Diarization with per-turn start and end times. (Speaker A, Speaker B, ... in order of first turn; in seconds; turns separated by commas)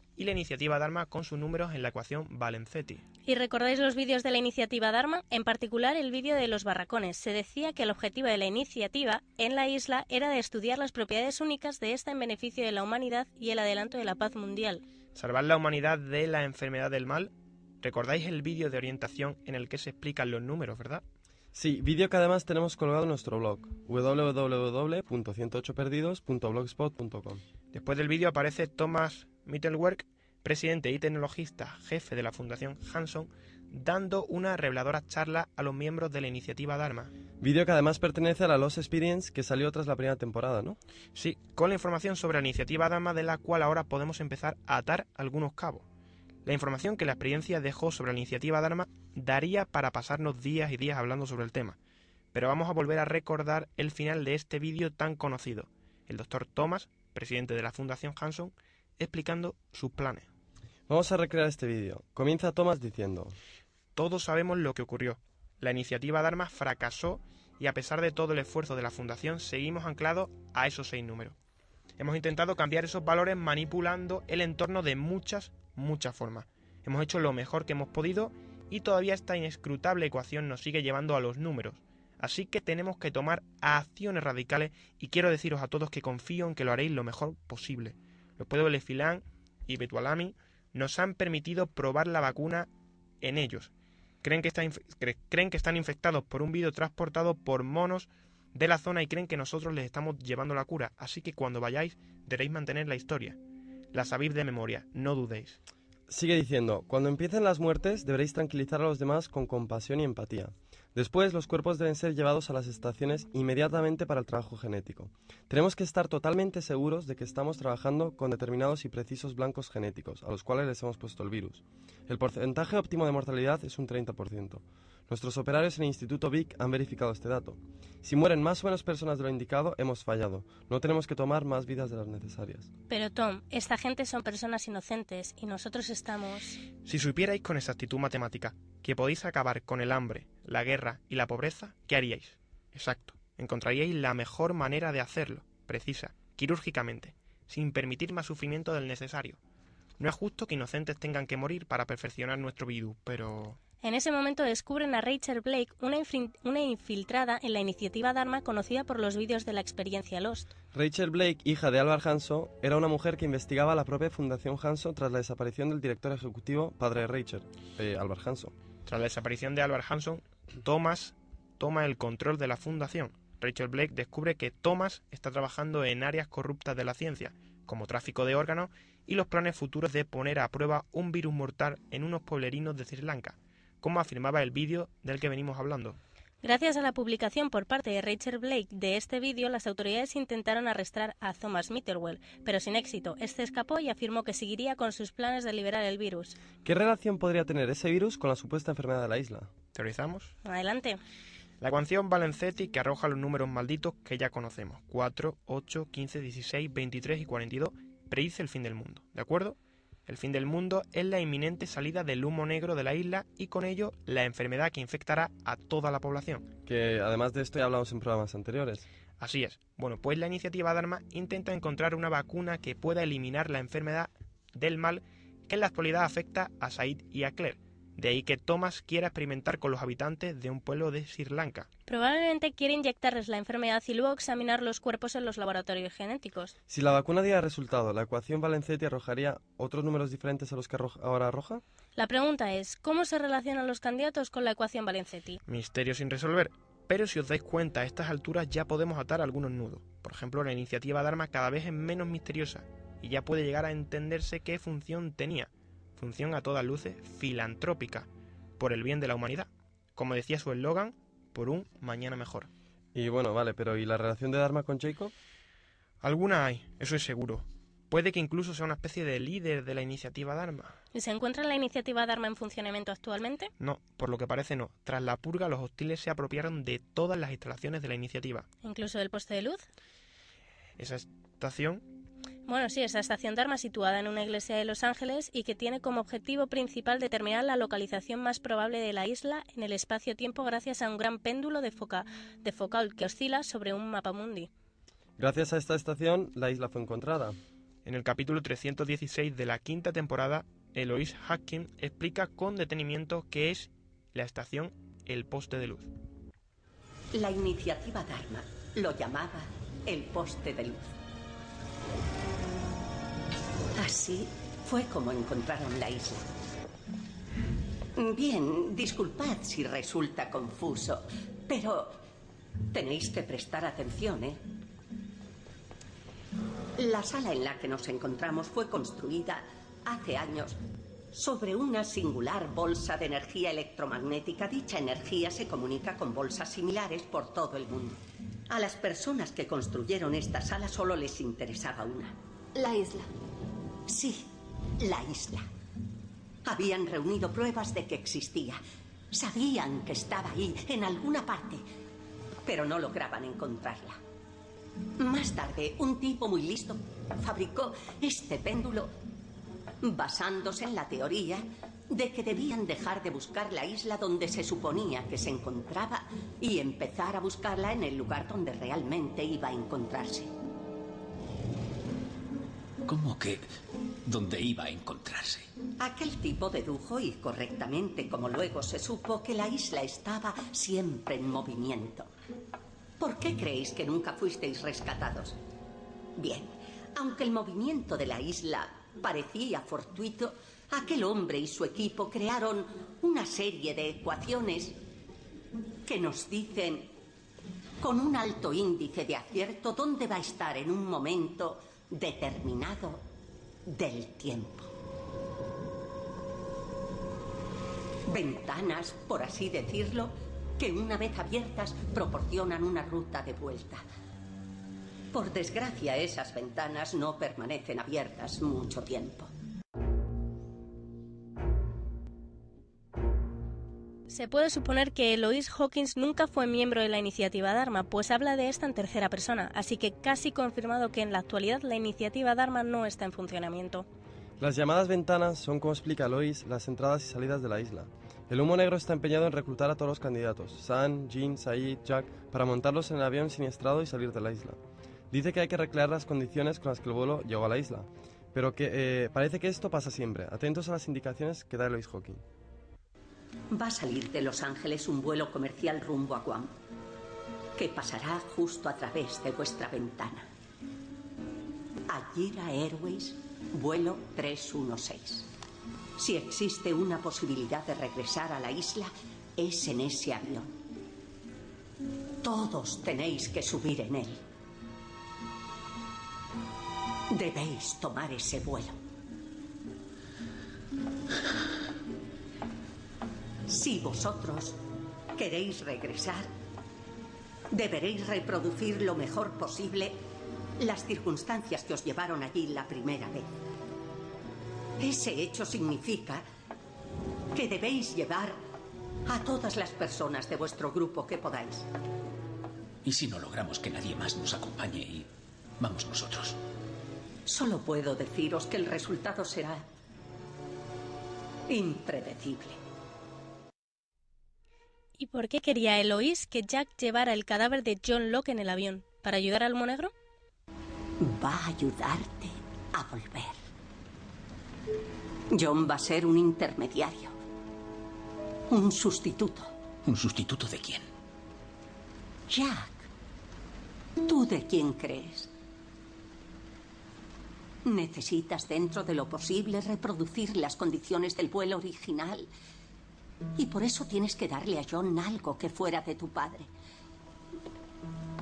Speaker A: 0.2-3.0, Speaker B: 3.3-14.8, Speaker A: 15.2-21.0, Speaker C: 21.5-27.4, Speaker A: 27.7-37.1, Speaker C: 37.4-40.8, Speaker A: 41.1-45.9, Speaker A: 46.5-51.8, Speaker A: 52.3-60.3, Speaker C: 60.9-63.4, Speaker A: 64.0-71.4, Speaker A: 72.0-92.7, Speaker A: 93.2-93.7, Speaker A: 94.2-103.4, Speaker A: 103.9-105.6, Speaker C: 106.1-132.7, Speaker B: 132.9-136.6, Speaker A: 136.8-149.4, Speaker A: 150.0-153.6, Speaker B: 153.8-160.5, Speaker C: 160.7-168.5, Speaker A: 168.9-186.0, Speaker B: 186.4-196.4, Speaker C: 196.7-199.5, Speaker A: 199.7-200.3, Speaker B: 200.4-201.0, Speaker A: 201.6-216.5, Speaker C: 216.7-218.9, Speaker A: 219.2-231.7, Speaker B: 231.9-236.5, Speaker C: 236.7-241.6, Speaker B: 242.0-245.4, Speaker A: 245.5-262.5, Speaker C: 262.9-265.1, Speaker A: 266.0-270.8, Speaker B: 270.9-273.5, Speaker A: 273.6-278.5, Speaker B: 278.6-279.6, Speaker A: 280.8-281.9, Speaker B: 282.5-294.5, Speaker C: 295.2-297.4, Speaker A: 297.9-305.9, Speaker D: 307.1-310.9, Speaker D: 313.8-316.3, Speaker D: 318.0-322.0, Speaker D: 322.7-324.4, Speaker D: 326.8-343.1, Speaker D: 343.9-345.5, Speaker D: 346.4-348.6, Speaker D: 349.1-351.6, Speaker D: 352.4-354.0, Speaker D: 355.0-358.9, Speaker D: 359.8-370.3, Speaker E: 372.9-373.5, Speaker E: 374.1-375.5, Speaker D: 375.8-382.1, Speaker D: 383.0-385.4, Speaker D: 386.2-394.8, Speaker D: 395.9-396.9, Speaker D: 397.8-403.0, Speaker D: 403.7-404.7, Speaker D: 408.1-413.8, Speaker D: 415.1-419.3, Speaker B: 424.1-433.9, Speaker C: 434.4-444.6, Speaker C: 445.1-452.2, Speaker D: 453.5-456.5, Speaker D: 457.6-460.3, Speaker D: 461.9-465.3, Speaker D: 466.0-470.5, Speaker D: 472.2-474.2, Speaker D: 477.1-478.8, Speaker D: 483.5-484.6, Speaker D: 485.2-486.3, Speaker D: 487.5-490.0, Speaker D: 490.6-493.3, Speaker D: 494.8-496.2, Speaker D: 497.3-498.4, Speaker D: 499.1-501.7, Speaker E: 502.8-505.1, Speaker E: 505.6-506.4, Speaker D: 507.3-509.7, Speaker D: 511.5-512.6, Speaker B: 515.0-519.9, Speaker D: 521.0-523.4, Speaker D: 525.3-527.2, Speaker D: 528.5-529.5, Speaker E: 529.9-530.9, Speaker D: 532.3-532.9, Speaker D: 534.0-535.3, Speaker D: 537.6-542.3, Speaker D: 543.4-546.5